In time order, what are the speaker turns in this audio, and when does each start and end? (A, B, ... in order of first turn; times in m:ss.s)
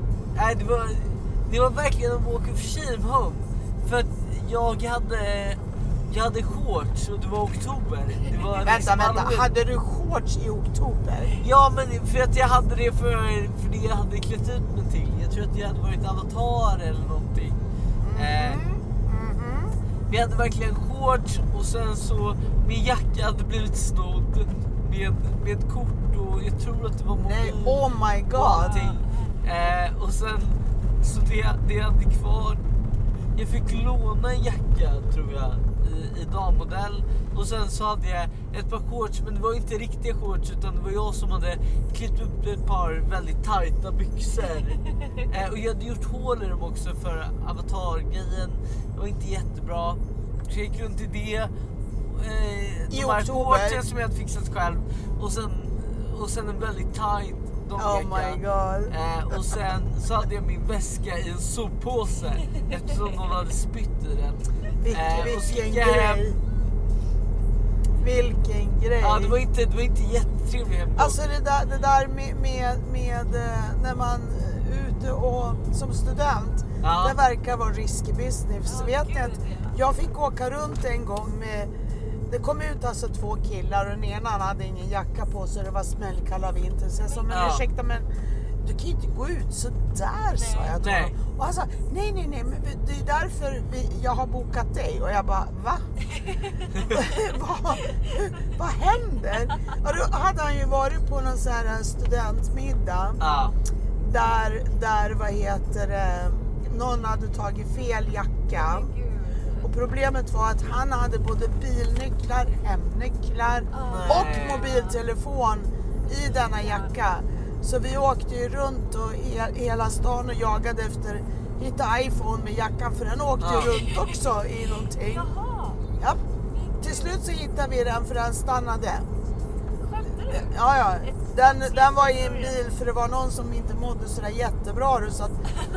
0:00.4-0:09.5 A
0:08.6-0:11.4 B
0:11.4-0:17.6 A
0:18.0-0:19.8 B
0:18.1-0:18.6 A
0:20.1-0:32.6 A
0:27.1-0:28.9 B
0:28.5-0:29.4 C
0:33.4-0:51.5 A
0:52.1-1:06.2 A
0:52.9-0:53.8 B
0:57.8-0:59.6 B
1:04.8-1:06.4 B
1:08.0-1:09.4 B
1:09.0-1:11.2 A
1:11.0-1:21.7 B
1:16.8-1:17.2 A
1:18.6-1:19.8 C
1:22.3-1:28.1 B
1:27.0-1:27.6 C
1:27.3-1:27.7 A
1:28.6-1:35.8 B
1:30.3-1:30.8 C
1:30.8-1:31.1 A
1:36.2-1:36.9 C
1:36.8-1:43.2 B
1:43.2-1:43.5 A
1:43.2-1:43.6 C
1:44.0-1:48.9 B
1:48.5-1:49.7 C
1:49.6-2:05.3 B
1:53.7-1:55.0 C
1:53.9-1:54.7 A
1:56.3-1:57.0 C
2:03.4-2:03.7 A
2:03.7-2:04.2 C
2:05.1-2:05.8 C
2:06.5-2:07.2 C
2:06.8-2:09.1 B
2:09.8-2:10.5 C
2:10.3-2:15.4 B
2:11.0-2:12.6 C